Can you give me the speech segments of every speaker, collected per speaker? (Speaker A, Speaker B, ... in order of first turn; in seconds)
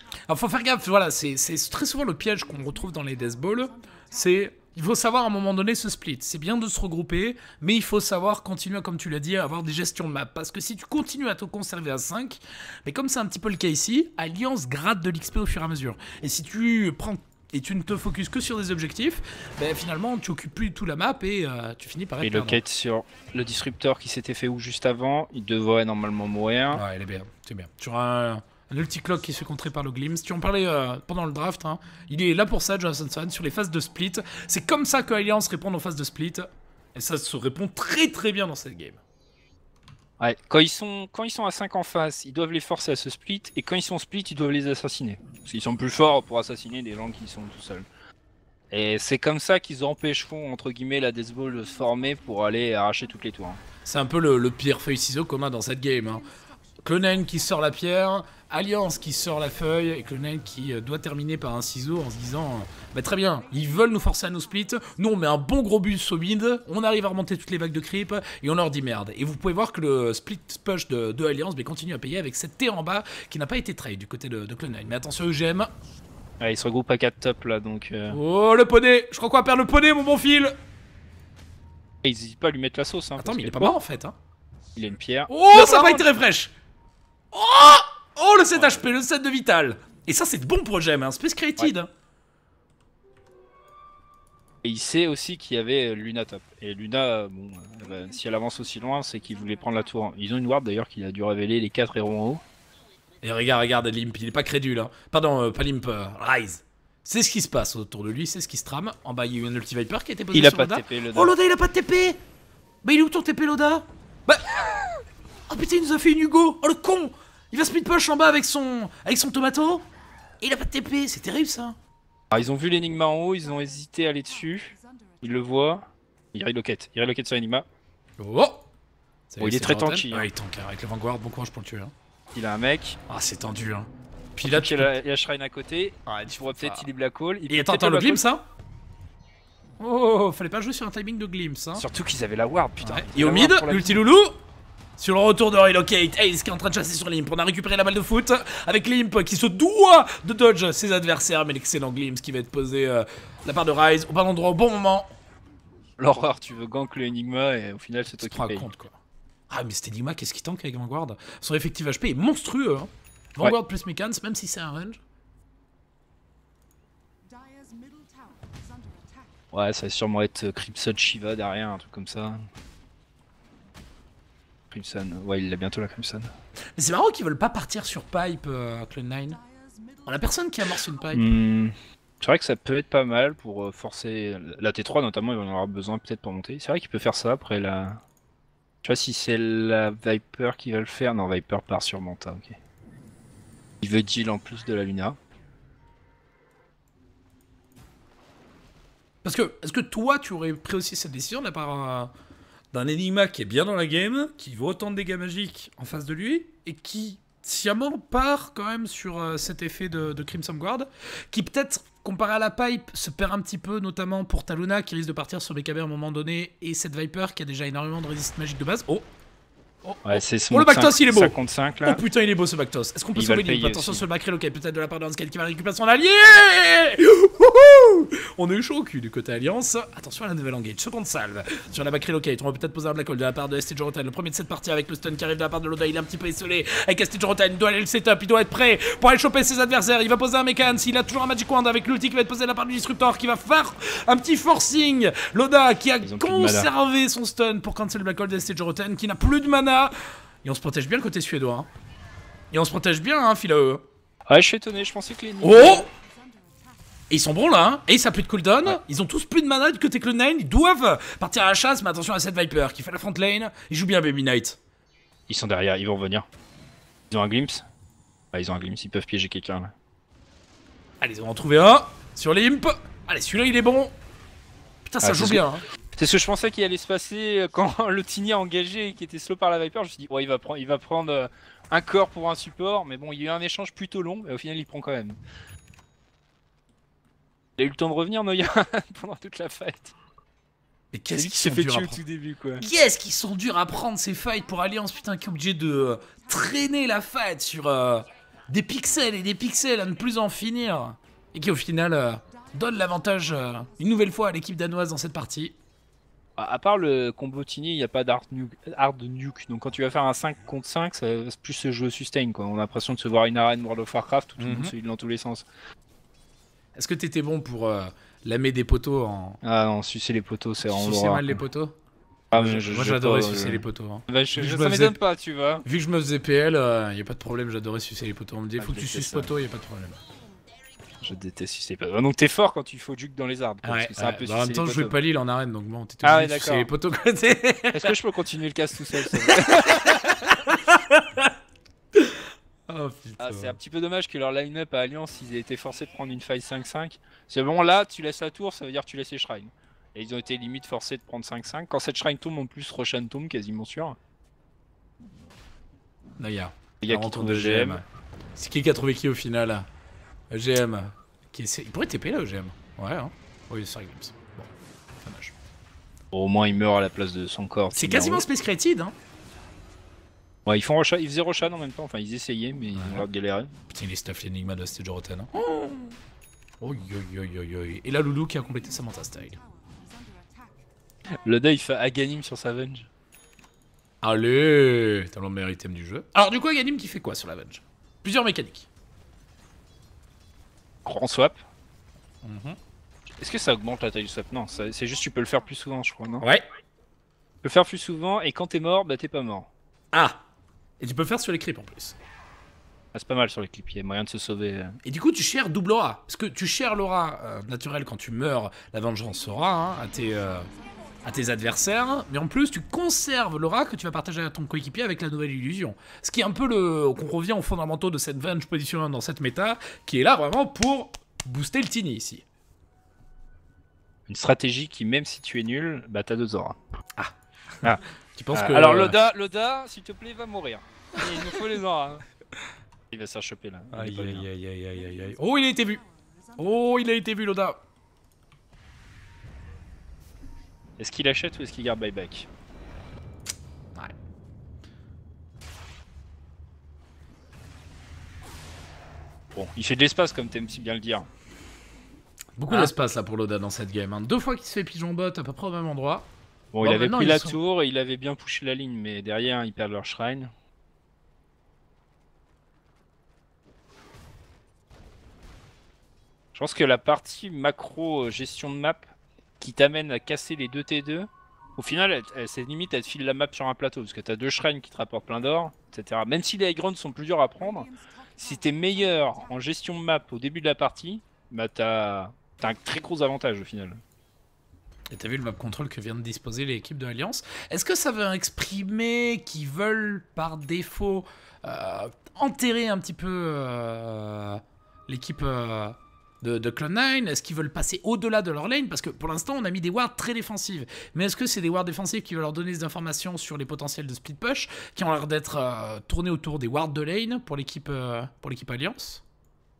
Speaker A: 0.3-22.6, 26.7-39.0, 53.9-56.2, 56.8-75.7, 78.1-80.5, 83.2-84.2, 85.3-86.5, 87.3-91.9, 103.2-112.2, 112.8-119.8, 120.4-121.8, 128.2-128.7, 129.3-131.9, 133.1-134.9, 136.1-136.9, 137.5-138.4, 139.8-141.8, 142.8-144.4, 145.0-155.1, 158.2-165.0, 176.8-179.4, 180.1-181.3, 199.2-202.1, 202.7-219.1, 219.8-251.7, 252.5-253.8, 255.4-255.9, 257.1-264.6, 271.0-273.9, 274.9-275.6, 290.9-292.0, 292.6-305.6, 314.4-314.7, 316.8-319.4, 320.6-321.8, 322.4-325.0, 325.6-330.0, 333.6-338.0, 338.9-341.3, 341.9-343.6, 356.2-357.8, 358.4-359.7, 360.3-365.3, 367.7-368.9, 372.7-373.1, 373.7-376.0, 376.6-379.4, 384.0-388.7, 392.2-392.6, 399.9-400.2, 400.8-402.0, 404.8-410.5, 411.0-422.2, 426.9-429.0, 431.0-431.4, 433.7-435.8, 436.4-437.6, 452.4-456.1, 456.6-457.4, 484.9-509.0
Speaker B: 22.2-26.8, 40.2-47.9, 48.7-53.6, 76.4-78.2, 82.0-83.7, 84.8-86.1, 88.6-88.8, 94.6-102.4, 110.3-111.3, 122.3-127.7, 129.4-130.3, 132.3-133.0, 134.4-138.2, 141.8-144.0, 156.0-158.7, 169.5-172.5, 174.7-176.3, 181.1-188.0, 188.8-192.6, 193.8-195.2, 220.1-222.0, 223.2-224.1, 246.0-246.7, 254.3-255.9, 265.3-266.3, 267.1-267.6, 268.3-269.7, 275.0-285.2, 287.6-289.9, 291.1-292.6, 306.4-315.4, 319.4-321.4, 322.3-325.7, 328.6-329.3, 331.0-334.9, 336.0-336.7, 337.7-340.4, 343.2-354.0, 356.8-357.8, 366.1-368.3, 370.5-373.5, 381.2-382.9, 390.9-391.4, 393.2-396.3, 397.4-399.5, 402.9-404.8, 424.1-426.6, 428.3-432.1, 432.9-434.3, 440.8-442.3, 449.4-451.1, 456.5-460.3, 466.3-468.9, 469.4-483.8